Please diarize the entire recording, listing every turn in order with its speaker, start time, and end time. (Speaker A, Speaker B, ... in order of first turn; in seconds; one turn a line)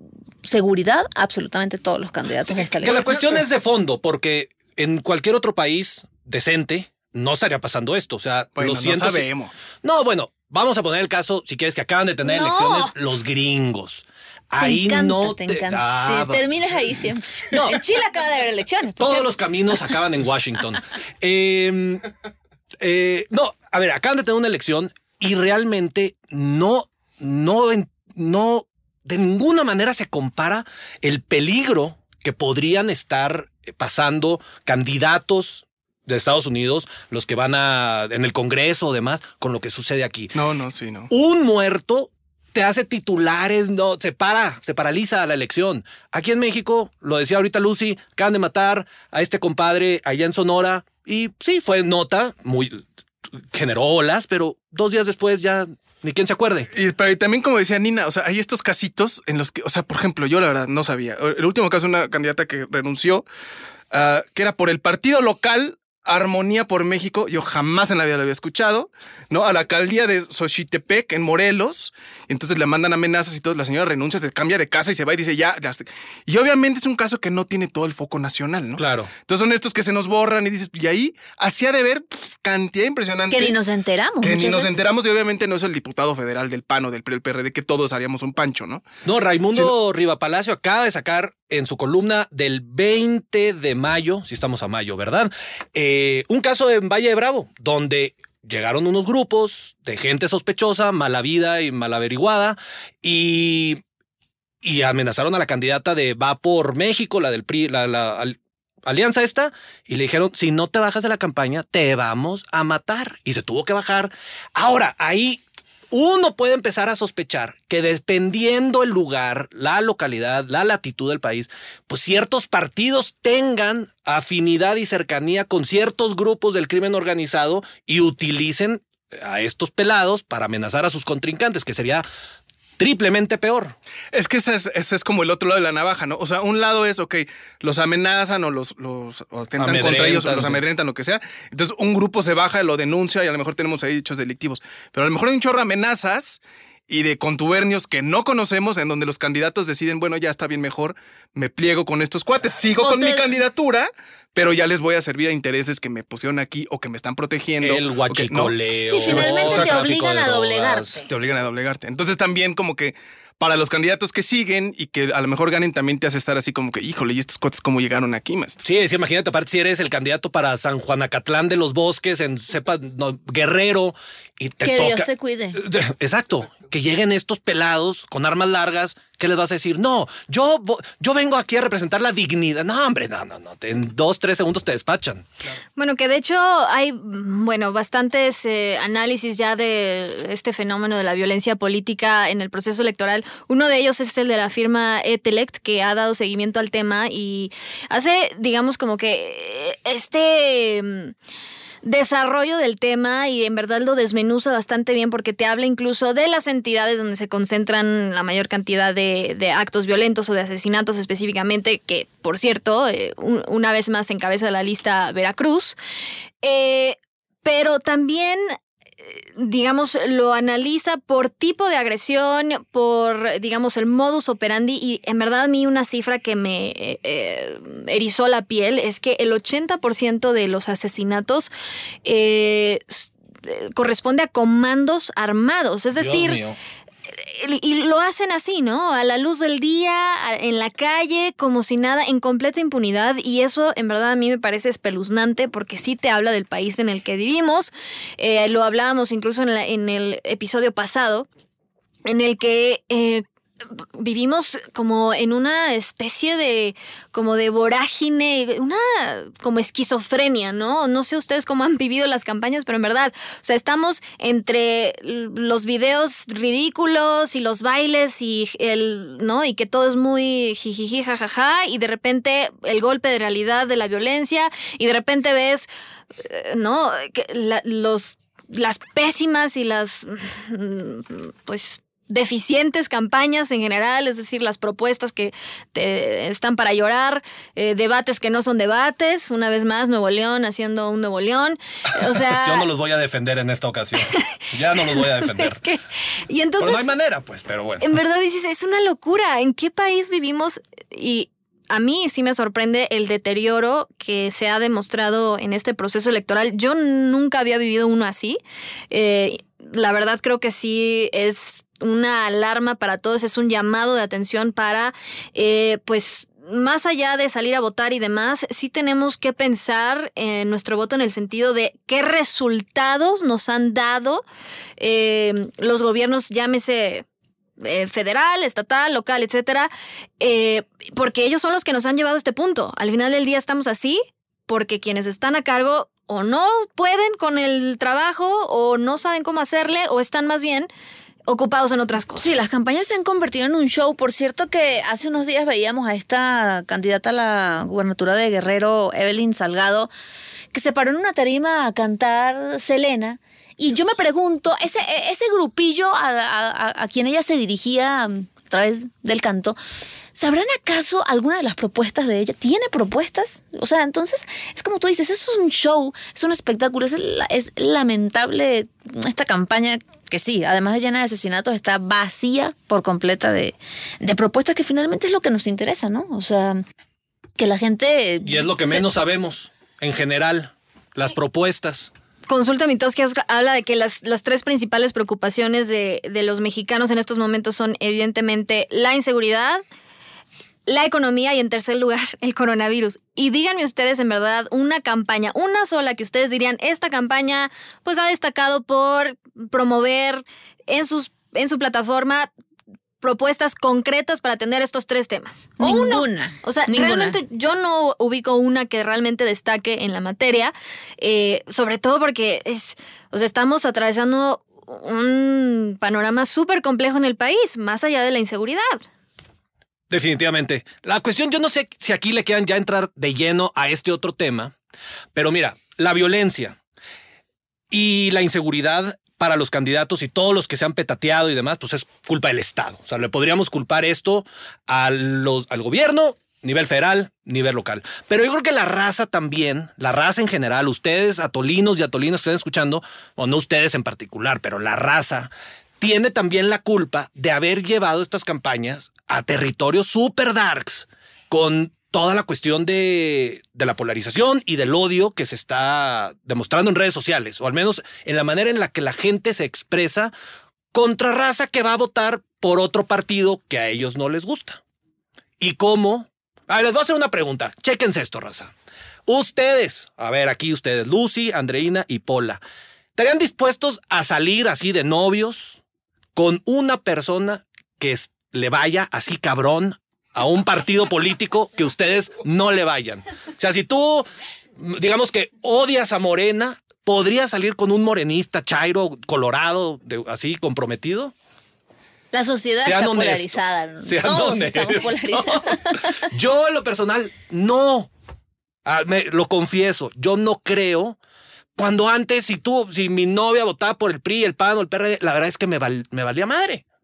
Speaker A: 0.4-3.1
Speaker B: 2.7-9.3
Speaker C: 2.9-3.4
Speaker C: 8.6-9.6
Speaker B: 9.8-16.5
Speaker D: 12.2-12.9
Speaker A: 14.6-19.8
Speaker B: 17.5-17.8
Speaker B: 19.0-22.1
Speaker B: 22.8-40.3
Speaker C: 40.3-41.1
Speaker B: 41.1-52.8
Speaker B: 53.5-56.7
Speaker C: 56.7-63.2
Speaker C: 63.9-83.5
Speaker B: 78.8-79.1
Speaker A: 83.3-84.8
Speaker C: 84.2-88.8
Speaker B: 89.0-103.8
Speaker B: 104.6-132.0
Speaker B: 132.8-133.7
Speaker C: 134.1-159.9
Speaker B: 139.6-140.6
Speaker A: 152.8-153.3
Speaker B: 157.6-161.0
Speaker A: 158.9-161.1
Speaker C: 161.1-168.6
Speaker B: 168.6-185.2
Speaker A: 174.6-175.6
Speaker D: 185.8-201.1
Speaker D: 201.8-215.8
Speaker D: 216.4-218.5
Speaker D: 219.2-231.5
Speaker D: 232.0-236.4
Speaker B: 236.0-236.6
Speaker D: 237.1-251.3
Speaker D: 252.1-253.2
Speaker D: 254.0-275.7
Speaker D: 276.2-292.6
Speaker B: 291.9-295.6
Speaker D: 294.8-296.9
Speaker B: 296.6-297.9
Speaker D: 297.8-308.4
Speaker D: 308.9-324.2
Speaker D: 324.8-327.0
Speaker D: 327.6-340.7
Speaker D: 341.2-342.4
Speaker A: 342.2-349.9
Speaker A: 350.5-359.6
Speaker A: 360.1-376.6
Speaker A: 377.4-378.9
Speaker B: 378.2-381.9
Speaker D: 382.3-389.6
Speaker D: 390.7-402.3
Speaker D: 403.0-418.8
Speaker A: 405.6-407.2
Speaker B: 419.9-424.5
Speaker B: 425.1-426.6
Speaker B: 427.7-460.1
Speaker B: 460.7-464.6
Speaker B: 465.4-468.5
Speaker B: 469.1-472.4
Speaker B: 472.9-475.6
Speaker B: 476.1-491.1
Speaker A: 492.1-496.0
Speaker B: 492.6-497.9
Speaker B: 498.6-501.0
Speaker B: 501.6-506.6